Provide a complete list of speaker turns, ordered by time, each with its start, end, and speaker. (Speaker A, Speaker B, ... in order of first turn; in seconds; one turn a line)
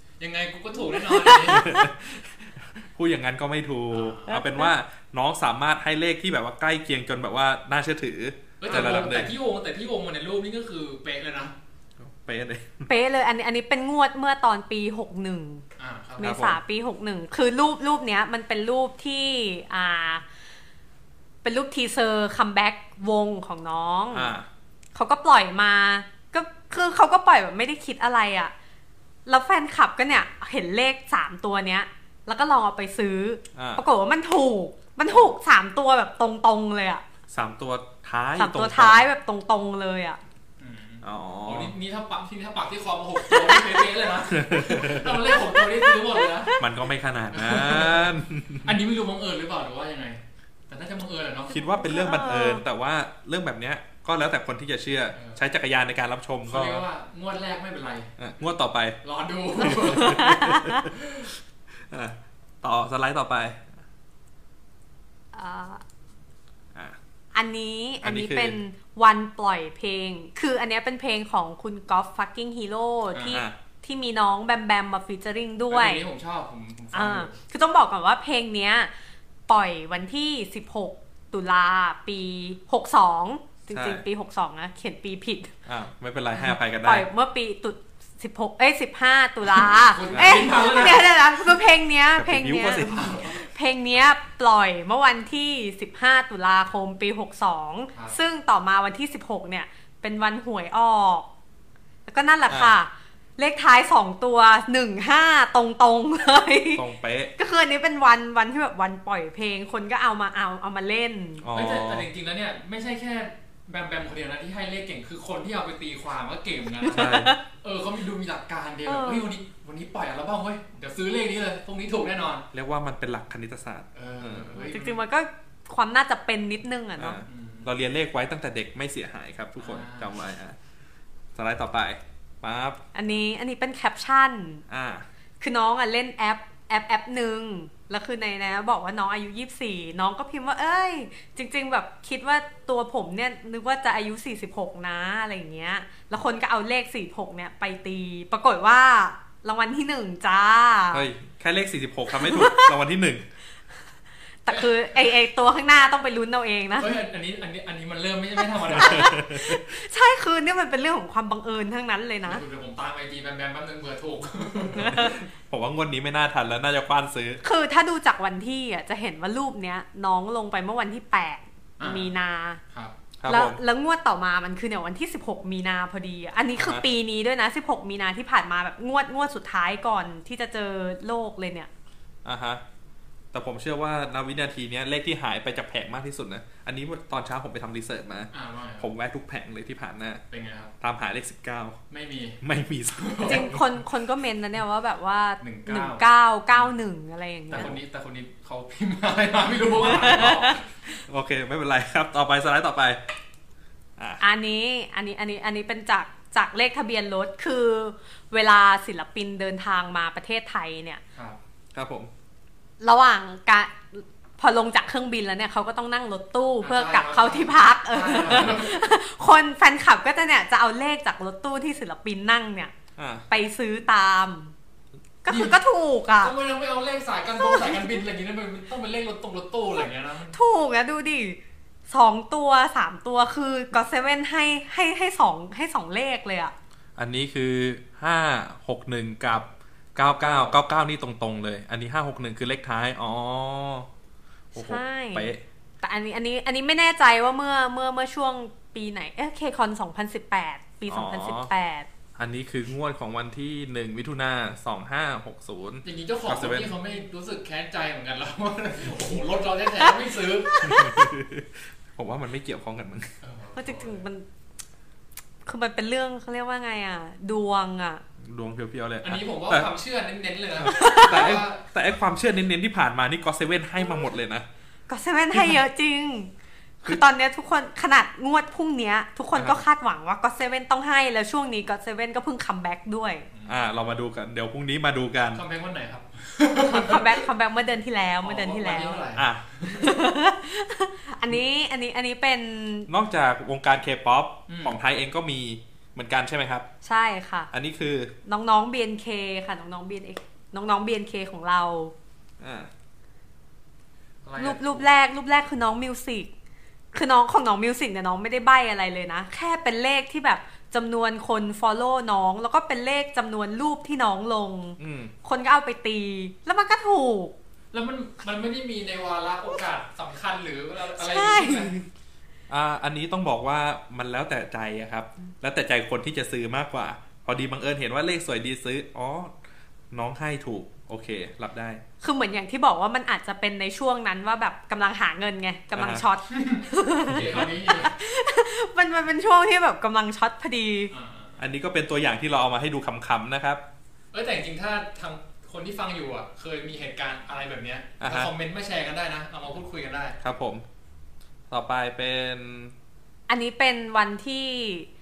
Speaker A: 0.2-1.7
Speaker B: 0.8-1.9
Speaker C: 1.5-9.3
Speaker A: 3.9-4.3
Speaker B: 4.3-4.7
Speaker A: 8.6-11.6
Speaker C: 12.0-12.9
Speaker B: 12.9-15.6
Speaker A: 15.8-16.3
Speaker B: 16.2-20.2
Speaker C: 16.2-16.6
Speaker B: 21.4-24.3
Speaker C: 24.1-24.5
Speaker B: 24.9-28.5
Speaker B: 29.3-37.0
Speaker C: 33.5-33.8
Speaker C: 37.3-39.0
Speaker B: 38.4-40.2
Speaker A: 40.6-46.6
Speaker C: 41.0-41.7
Speaker B: 43.3-43.8
Speaker C: 44.3-45.3
Speaker B: 45.4-46.6
Speaker C: 46.6-48.8
Speaker A: 47.3-51.6
Speaker C: 51.5-56.9
Speaker B: 51.5-52.6
Speaker A: 55.1-55.4
Speaker A: 56.5-58.1
Speaker C: 58.2-59.0
Speaker A: 59.0-61.3
Speaker C: 59.6-60.9
Speaker B: 59.8-60.9
Speaker C: 61.9-63.6
Speaker B: 65.3-65.8
Speaker B: 67.3-76.0
Speaker C: 68.0-68.6
Speaker A: 73.1-73.4
Speaker C: 73.3-73.6
Speaker A: 75.7-77.4
Speaker B: 76.9-78.9
Speaker B: 79.5-85.5
Speaker C: 83.7-84.0
Speaker C: 85.7-87.1
Speaker B: 86.4-101.3
Speaker A: 89.7-91.2
Speaker C: 90.1-90.6
Speaker C: 92.2-93.3
Speaker A: 92.8-93.4
Speaker B: 102.1-106.8
Speaker C: 102.5-102.8
Speaker C: 106.8-107.3
Speaker B: 107.4-111.5
Speaker C: 111.4-112.1
Speaker A: 111.5-122.5
Speaker B: 116.8-117.4
Speaker C: 116.9-117.4
Speaker B: 118.9-119.3
Speaker C: 122.5-124.6
Speaker A: 124.0-125.0
Speaker B: 124.6-127.2
Speaker C: 127.0-130.6
Speaker A: 127.3-127.7
Speaker A: 129.6-130.1
Speaker C: 131.3-132.8
Speaker B: 132.9-134.6
Speaker C: 134.7-135.1
Speaker B: 135.4-151.1
Speaker C: 150.9-153.2
Speaker B: 152.1-152.8
Speaker B: 154.5-157.0
Speaker A: 154.5-154.8
Speaker A: 156.8-159.2
Speaker B: 158.6-162.4
Speaker C: 158.7-159.6
Speaker A: 162.3-165.1
Speaker B: 164.8-165.2
Speaker C: 164.8-167.4
Speaker B: 167.4-172.6
Speaker A: 171.8-172.1
Speaker C: 173.2-173.6
Speaker B: 173.3-181.7
Speaker C: 176.6-176.8
Speaker C: 182.2-182.6
Speaker C: 183.3-190.2
Speaker A: 188.3-188.9
Speaker A: 190.3-190.7
Speaker C: 190.8-191.8
Speaker A: 191.9-192.4
Speaker C: 192.4-193.6
Speaker A: 192.9-193.6
Speaker B: 193.2-197.8
Speaker A: 195.4-196.7
Speaker A: 197.5-200.6
Speaker B: 199.9-200.6
Speaker C: 201.1-203.0
Speaker B: 204.2-211.0
Speaker C: 211.7-212.1
Speaker B: 212.8-222.7
Speaker A: 216.6-218.8
Speaker C: 223.0-223.3
Speaker B: 223.3-224.5
Speaker B: 225.2-226.3
Speaker A: 225.3-225.6
Speaker A: 226.2-230.4
Speaker B: 227.4-228.0
Speaker B: 230.3-231.4
Speaker B: 231.9-236.5
Speaker C: 237.0-243.9
Speaker A: 240.2-240.6
Speaker B: 244.5-245.3
Speaker C: 244.5-245.4
Speaker B: 245.8-251.9
Speaker C: 250.9-251.5
Speaker C: 252.2-256.7
Speaker A: 255.8-260.7
Speaker B: 260.5-261.0
Speaker C: 260.6-263.1
Speaker A: 263.2-264.0
Speaker B: 263.6-264.2
Speaker B: 265.4-268.0
Speaker C: 268.2-269.7
Speaker A: 269.0-271.7
Speaker C: 270.6-274.5
Speaker B: 270.6-271.4
Speaker B: 274.9-276.3
Speaker C: 275.3-275.6
Speaker B: 276.8-283.3
Speaker C: 279.4-279.6
Speaker A: 283.3-283.7
Speaker C: 283.5-285.4
Speaker A: 285.3-287.2
Speaker B: 286.6-289.0
Speaker A: 288.2-290.0
Speaker C: 289.1-289.4
Speaker B: 289.6-292.9
Speaker C: 292.9-296.7
Speaker A: 294.5-294.8
Speaker B: 296.8-297.5
Speaker C: 297.5-298.1
Speaker B: 298.3-301.9
Speaker C: 302.4-302.7
Speaker A: 304.2-304.9
Speaker B: 304.4-306.3
Speaker B: 306.9-317.3
Speaker C: 314.8-315.1
Speaker A: 317.7-321.7
Speaker B: 321.0-321.9
Speaker C: 322.5-329.4
Speaker C: 329.9-331.8
Speaker B: 332.0-340.9
Speaker C: 335.7-336.1
Speaker A: 336.3-337.9
Speaker C: 337.1-337.5
Speaker A: 340.9-341.4
Speaker C: 341.4-343.6
Speaker A: 344.1-350.2
Speaker C: 348.0-348.3
Speaker C: 350.2-350.6
Speaker C: 351.5-352.7
Speaker B: 353.3-354.9